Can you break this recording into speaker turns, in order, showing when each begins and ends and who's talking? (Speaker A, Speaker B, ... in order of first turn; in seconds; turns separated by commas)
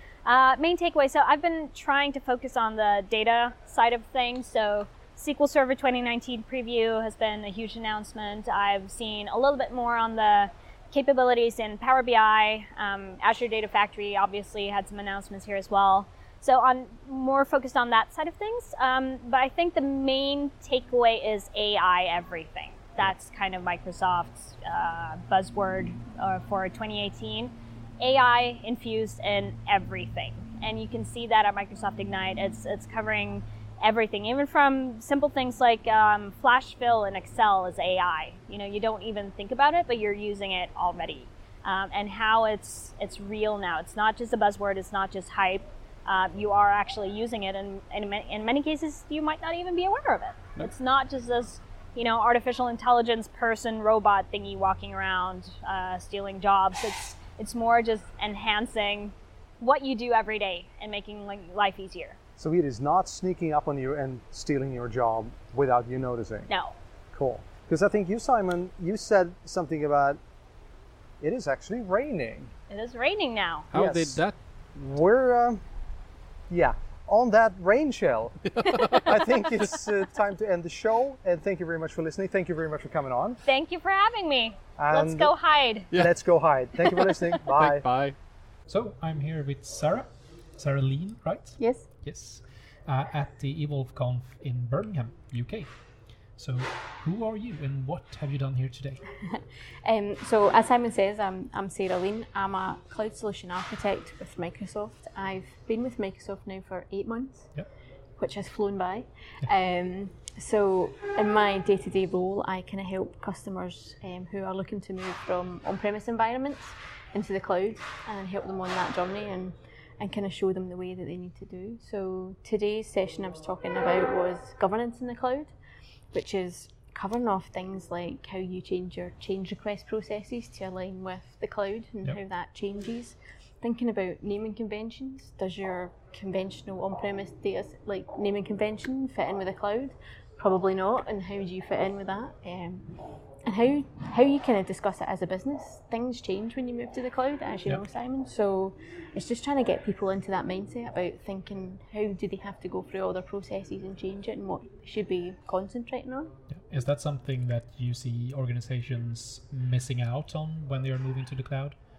Speaker A: 0.2-62.2, Speaker B: 62.4-66.5, Speaker A: 66.5-66.8, Speaker B: 67.1-70.2, Speaker B: 71.2-72.5, Speaker A: 72.7-73.7, Speaker C: 73.7-74.3, Speaker B: 73.7-74.2, Speaker B: 74.8-75.6, Speaker B: 76.5-83.4, Speaker C: 78.5-79.2, Speaker A: 83.5-85.9, Speaker B: 84.8-85.3, Speaker B: 85.9-87.8, Speaker C: 87.5-88.2, Speaker D: 88.7-95.7, Speaker E: 91.6-91.9, Speaker D: 96.4-99.0, Speaker E: 99.3-107.5, Speaker E: 108.2-125.5, Speaker E: 126.1-142.9, Speaker E: 143.4-156.3, Speaker D: 156.6-161.8